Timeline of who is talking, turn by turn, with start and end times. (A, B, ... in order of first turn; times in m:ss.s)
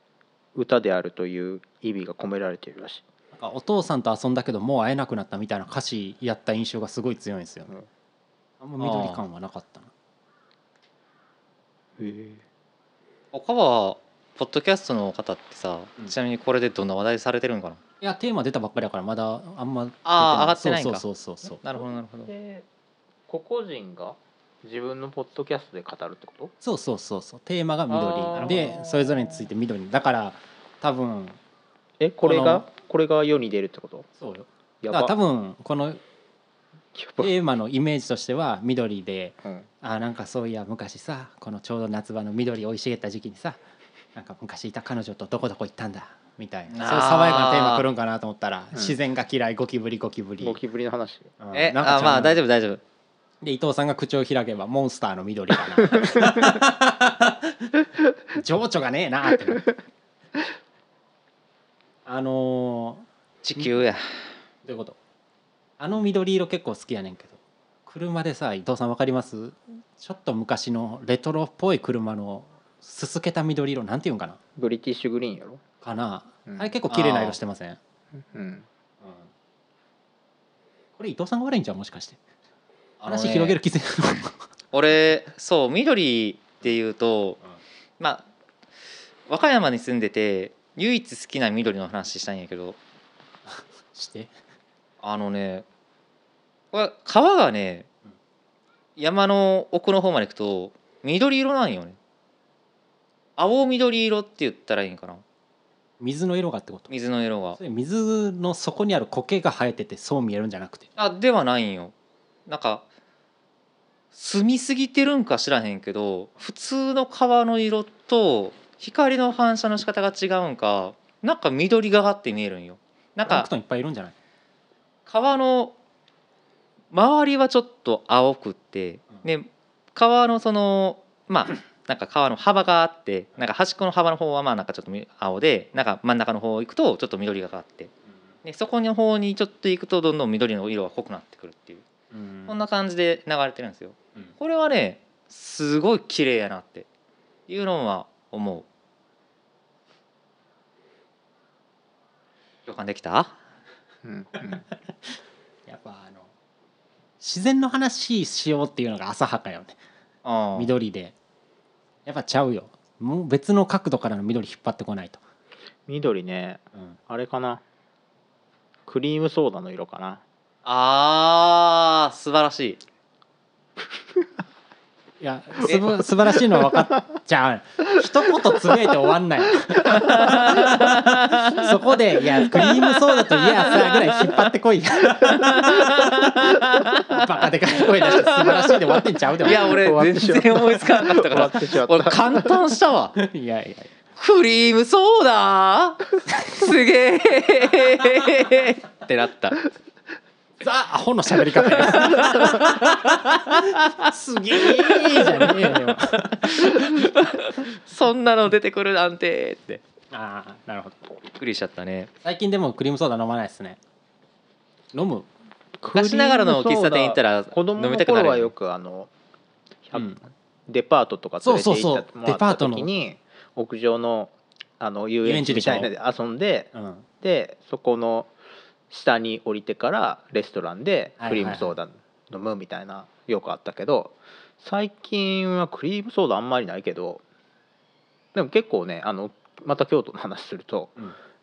0:00.5-0:03.0 A
0:03.3-0:07.7 B
0:08.6-0:09.9 B
0:08.8-0:09.2 C
0:12.0-0:12.4 A
0:13.3-0:17.8 C
0:18.0-0:21.6 B
0:20.0-0:21.0 C
0:21.6-0:22.3 C
0:21.7-0:22.6 A
0:23.3-0:26.5 A
0:26.6-0:31.4 B
0:27.9-0:29.5 A
0:28.4-0:28.7 C
0:32.0-0:34.1 A
0:32.2-0:32.6 B
0:34.2-0:36.0 B
0:34.8-0:35.1 A
0:36.9-0:37.3 A
0:37.2-0:43.6 B
0:39.4-0:39.7 A
0:44.1-0:50.6 B
0:46.7-0:47.8 C
0:50.4-0:51.3 A
0:51.4-0:52.4 B
0:51.5-0:52.8 C
0:53.4-0:57.7 B
0:58.3-0:59.7 B
1:02.0-1:03.7 B
1:03.4-1:04.0 C
1:04.6-1:05.0 B
1:05.8-1:14.4 B
1:14.6-1:15.6 A
1:15.8-1:17.8 B
1:16.9-1:17.4 C
1:18.3-1:18.6 A
1:21.0-1:22.2 B
1:23.0-1:23.6 C
1:23.0-1:24.4 B
1:24.7-1:27.4 C
1:28.0-1:28.2 C
1:29.3-1:32.8 C
1:33.4-1:34.3 B
1:35.0-1:35.6 C
1:36.7-1:37.9 C
1:39.0-1:42.0 C
1:43.4-1:45.2 C
1:46.0-1:46.9 B
1:46.9-1:47.6 C
1:47.6-1:50.8 B
1:51.0-1:51.9 C
1:52.5-1:52.8 C
1:54.1-2:03.5 C
2:03.2-2:04.1 B
2:05.0-2:05.7 C
2:06.9-2:17.9 C
2:18.4-2:21.8 C
2:22.1-2:22.6 B
2:22.5-2:26.9 C
2:27.5-2:28.6 C
2:32.6-2:33.4 C
2:34.0-2:34.6 A
2:34.8-2:35.1 B
2:35.7-2:36.3 B
2:37.2-2:39.8 B
2:40.2-2:40.7 C
2:40.5-2:41.1 B
2:42.0-2:45.2 B
2:45.9-2:47.6 A
2:48.8-2:50.2 A
2:50.6-2:52.8 C
2:55.2-3:09.7 B
2:56.3-2:57.0 A
2:58.5-2:58.9 A
2:59.7-3:00.7 A
3:00.0-3:01.7 C
3:02.4-3:04.3 C
3:05.2-3:07.2 C
3:08.0-3:08.7 C
3:09.4-3:13.1 C
3:09.4-3:12.6 A
3:13.1-3:13.9 B
3:14.2-3:19.6 C
3:16.3-3:16.6 B
3:20.6-3:27.1 B
3:21.7-3:29.8 C
3:30.1-3:31.0 B
3:31.4-3:32.1 C
3:32.2-3:33.8 B
3:34.9-3:35.3 B
3:35.8-3:39.1 A
3:35.9-3:38.5 C
3:39.8-3:46.7 A
3:39.9-3:40.2 B
3:41.4-3:42.9 B
3:45.2-3:45.9 B
3:46.7-3:47.0 B
3:47.2-3:48.3 A
3:48.9-3:57.2 A
3:51.2-3:51.7 B
3:58.3-4:01.0 A